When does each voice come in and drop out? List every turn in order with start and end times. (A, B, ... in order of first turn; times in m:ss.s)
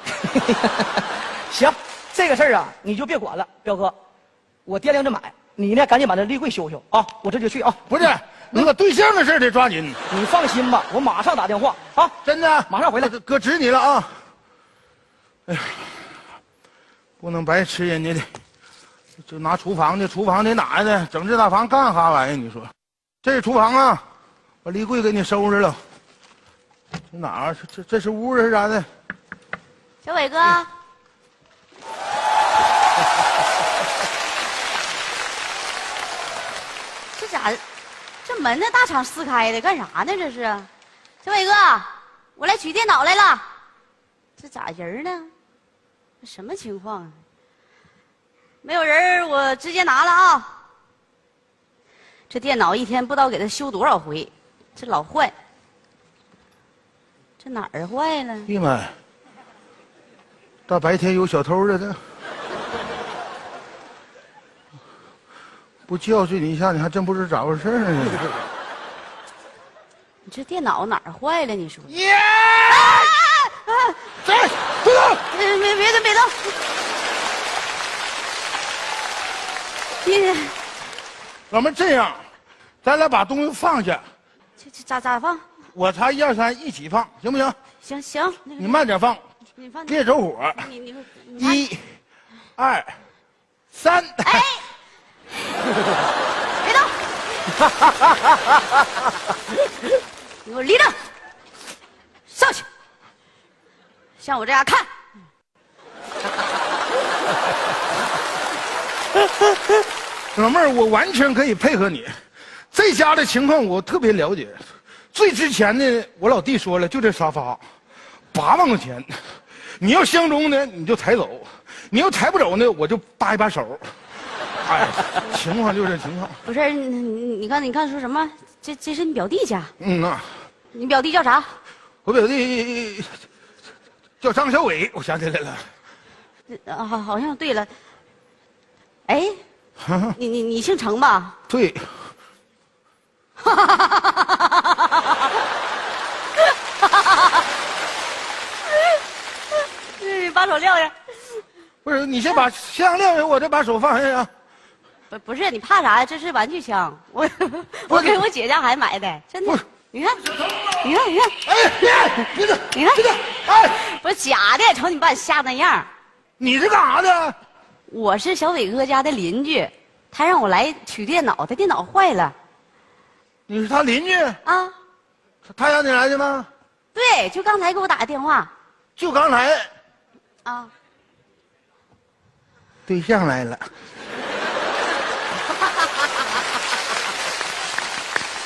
0:00.2-0:04.0 A
0:04.6-0:07.9 A
0:07.9-0:10.0 B
0:10.1-0:12.2 A
0:12.2-0:14.1 B
0:12.7-0:13.1 A
0:15.5-0:16.0 B
0:17.2-0:18.3 B
0:19.2-0:22.7 B
0:23.2-0:24.0 B
0:24.6-0:25.8 B
0:27.1-0:28.9 B
0:30.0-0:30.7 C
0:37.2-0:37.6 C
0:38.2-0:40.7 C
0:41.2-0:43.4 C
0:44.4-0:45.3 C
0:46.2-0:47.2 C
0:48.6-0:50.5 C
0:52.3-0:55.3 C
0:57.4-0:58.5 C
0:58.5-0:58.9 B
1:00.7-1:02.0 B
1:05.9-1:08.3 B
1:10.2-1:11.9 C
1:11.9-1:13.1 B
1:12.7-1:14.0 C
1:14.2-1:15.2 B
1:15.3-1:16.4 C
1:20.0-1:20.6 C
1:21.5-1:22.2 B
1:22.8-1:24.0 B
1:24.6-1:25.4 C
1:25.7-1:27.6 B
1:27.8-1:28.8 C
1:28.6-1:29.2 B
1:29.6-1:30.0 C
1:29.9-1:30.7 B
1:30.6-1:31.6 C
1:31.4-1:31.9 B
1:32.6-1:32.9 B
1:33.7-1:34.4 B
1:34.2-1:34.6 C
1:36.6-1:36.9 C
1:40.4-1:41.0 C
1:42.3-1:42.6 C
1:44.2-1:44.9 C
1:50.3-1:52.1 B
1:52.7-1:57.6 B
1:58.3-1:59.2 B
1:59.8-2:03.9 B
2:04.6-2:06.4 B
2:06.4-2:09.7 C
2:09.8-2:10.3 B
2:10.7-2:11.5 C
2:12.0-2:13.2 B
2:14.2-2:15.7 B
2:16.5-2:17.7 C
2:19.1-2:19.4 C
2:19.8-2:20.2 B
2:20.2-2:21.4 C
2:21.5-2:21.9 B
2:23.4-2:25.2 C
2:26.8-2:27.4 C
2:30.0-2:30.9 C
2:31.8-2:34.3 B
2:35.1-2:41.4 C
2:37.9-2:38.2 B
2:40.3-2:40.7 B
2:41.4-2:43.8 B
2:42.7-2:45.9 C
2:46.4-2:47.4 B
2:47.9-2:52.3 C
2:53.5-2:54.4 B
2:54.4-2:54.7 C
2:55.4-2:56.5 B
2:56.9-2:58.5 C
2:59.0-2:59.7 B
3:00.4-3:00.7 C
3:02.9-3:03.7 B